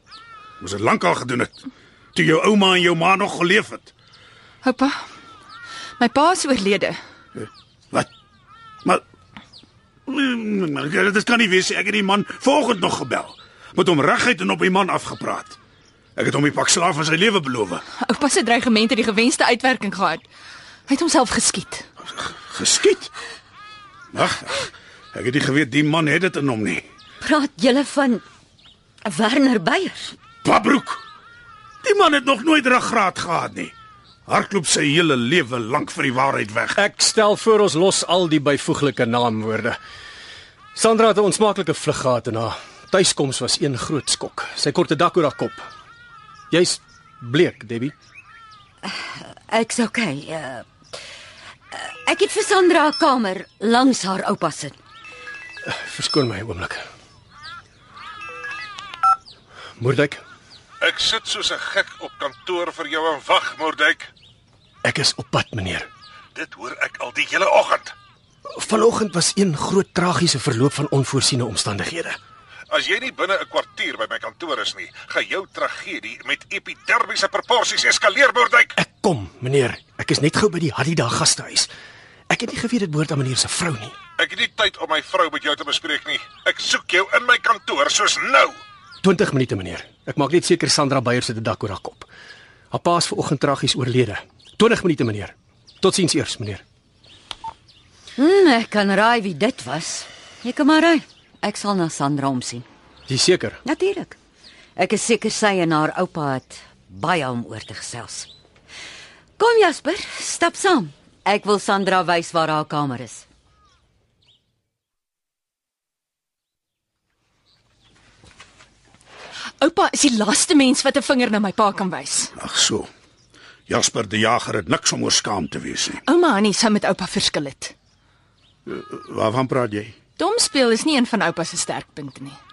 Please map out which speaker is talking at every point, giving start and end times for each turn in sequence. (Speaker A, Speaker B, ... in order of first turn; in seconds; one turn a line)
Speaker A: 0.6-3.9
Speaker B: 4.6-5.0
Speaker B: 6.0-7.0
Speaker A: 10.1-15.6
Speaker A: 16.2-17.8
Speaker B: 18.0-20.2
Speaker B: 20.9-21.9
Speaker A: 22.2-23.1
Speaker A: 24.1-26.8
Speaker C: 27.2-28.2
Speaker C: 29.0-30.1
Speaker A: 30.4-31.0
Speaker A: 31.8-33.7
Speaker A: 34.3-36.8
Speaker D: 36.8-39.8
Speaker D: 40.8-45.6
Speaker D: 46.5-47.9
Speaker C: 48.9-50.6
Speaker C: 51.7-54.8
Speaker D: 55.6-56.8
Speaker D: 59.8-60.2
Speaker E: 60.8-64.1
Speaker D: 64.8-65.9
Speaker E: 66.3-67.9
Speaker D: 68.5-72.2
Speaker E: 72.7-78.8
Speaker D: 78.8-81.7
Speaker D: 82.3-84.0
Speaker E: 84.2-88.6
Speaker D: 89.0-92.1
Speaker D: 92.7-96.6
Speaker C: 98.2-102.7
Speaker D: 103.1-103.6
Speaker C: 103.7-104.2
Speaker C: 104.8-108.3
Speaker C: 109.4-113.2
Speaker B: 119.6-122.3
Speaker A: 122.4-122.9
Speaker A: 123.7-126.0
Speaker B: 126.1-127.7
Speaker A: 128.7-129.9
Speaker B: 130.2-132.4